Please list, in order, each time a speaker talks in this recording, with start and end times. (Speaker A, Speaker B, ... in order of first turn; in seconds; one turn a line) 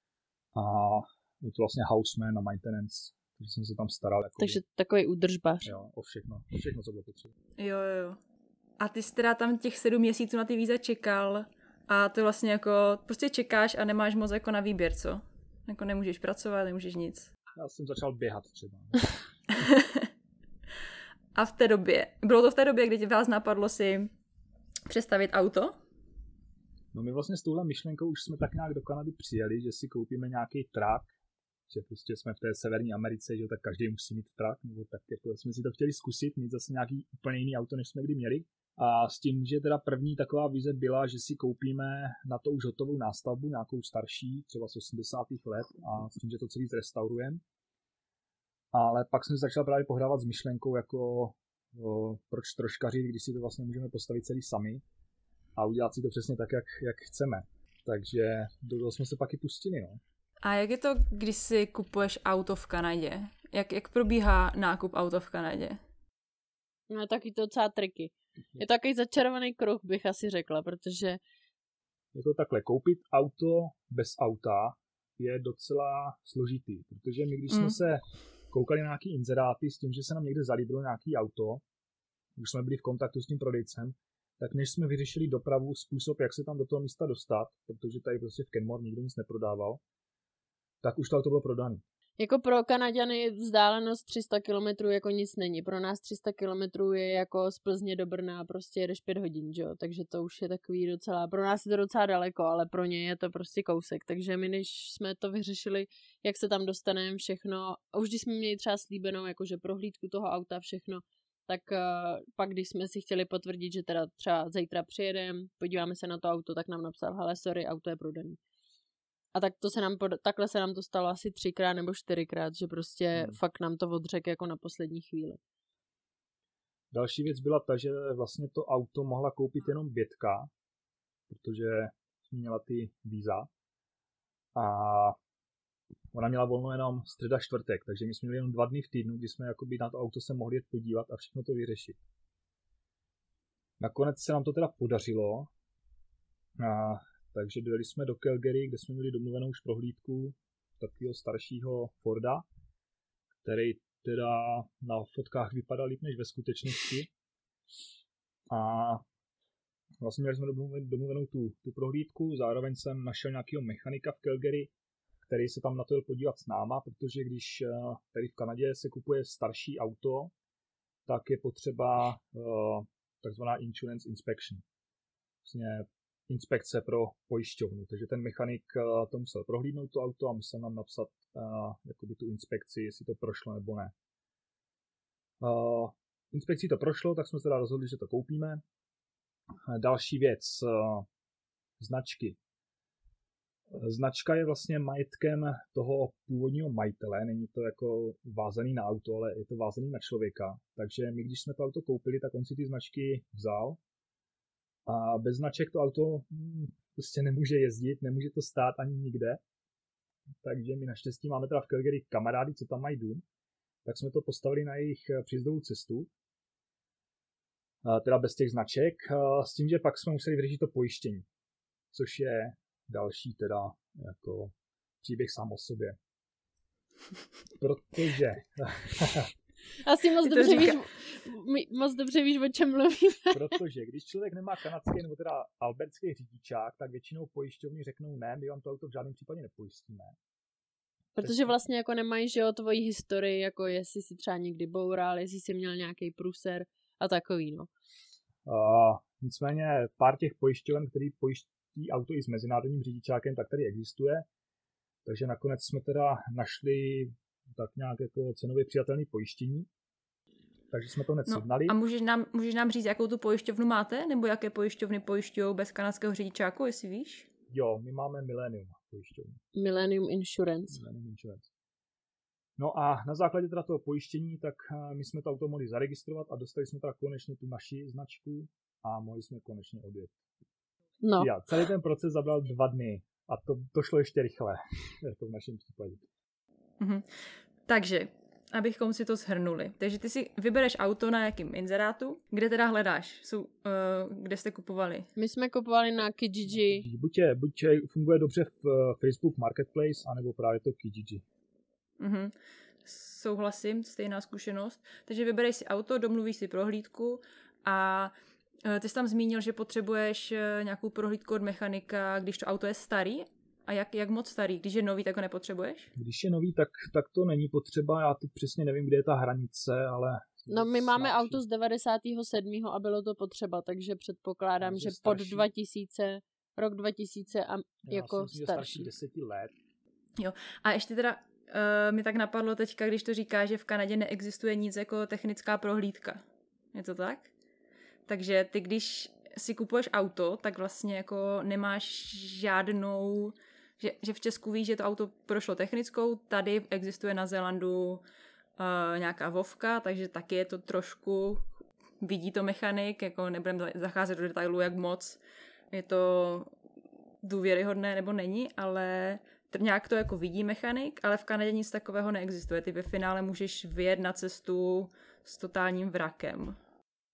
Speaker A: 0.5-4.6
Speaker B: 4.4-5.7
Speaker A: 5.6-7.3
Speaker C: 7.6-8.2
Speaker C: 8.8-17.3
Speaker A: 17.5-19.1
Speaker C: 19.5-20.1
Speaker C: 21.3-24.1
Speaker C: 24.9-25.8
Speaker A: 26.9-31.1
Speaker A: 31.7-47.4
Speaker A: 48.7-54.8
Speaker A: 55.5-60.0
Speaker C: 60.4-65.8
Speaker B: 66.9-71.2
Speaker A: 72.1-81.6
Speaker C: 77.5-77.8
Speaker A: 82.4-89.8
Speaker A: 90.8-91.8
Speaker B: 92.2-118.4
Speaker B: 119.3-125.4
Speaker A: 123.1-123.4
Speaker A: 126.9-130.5
Speaker A: 131.3-133.5
Speaker A: 134.5-135.2
Speaker A: 136.1-142.0
Speaker A: 143.8-145.5
Speaker A: 146.6-152.4
Speaker A: 153.4-157.1
Speaker A: 158.5-159.0
Speaker A: 160.0-164.7
Speaker A: 165.2-170.3
Speaker A: 171.1-174.6
Speaker A: 175.4-183.9
Speaker A: 185.4-188.6
Speaker A: 189.7-191.1
Speaker A: 191.8-192.4
Speaker A: 193.7-203.8
Speaker A: 204.8-209.4
Speaker A: 210.4-213.2
Speaker A: 213.8-216.1
Speaker A: 217.8-221.2
Speaker A: 221.9-226.0
Speaker A: 227.6-229.3
Speaker B: 229.8-233.6
Speaker C: 230.2-230.8
Speaker A: 233.3-240.2
Speaker B: 241.2-247.7
Speaker A: 241.2-241.5
Speaker A: 248.4-254.3
Speaker A: 255.0-259.7
Speaker A: 260.7-261.8
Speaker C: 261.3-267.3
Speaker A: 267.5-269.4
Speaker B: 269.5-270.8
Speaker A: 270.7-271.5
Speaker A: 272.6-280.2
Speaker B: 281.0-281.3
Speaker A: 281.2-286.1
Speaker C: 286.8-295.1
Speaker B: 295.2-296.9
Speaker A: 296.5-301.2
Speaker C: 302.0-308.1
Speaker C: 308.6-315.9
Speaker A: 316.0-321.4
Speaker B: 320.5-328.9
Speaker A: 324.6-325.5
Speaker A: 327.8-329.5
Speaker C: 330.2-336.2
Speaker C: 336.7-337.3
Speaker C: 338.1-348.0
Speaker C: 348.6-351.5
Speaker C: 352.0-355.2
Speaker C: 355.7-356.5
Speaker C: 357.2-366.6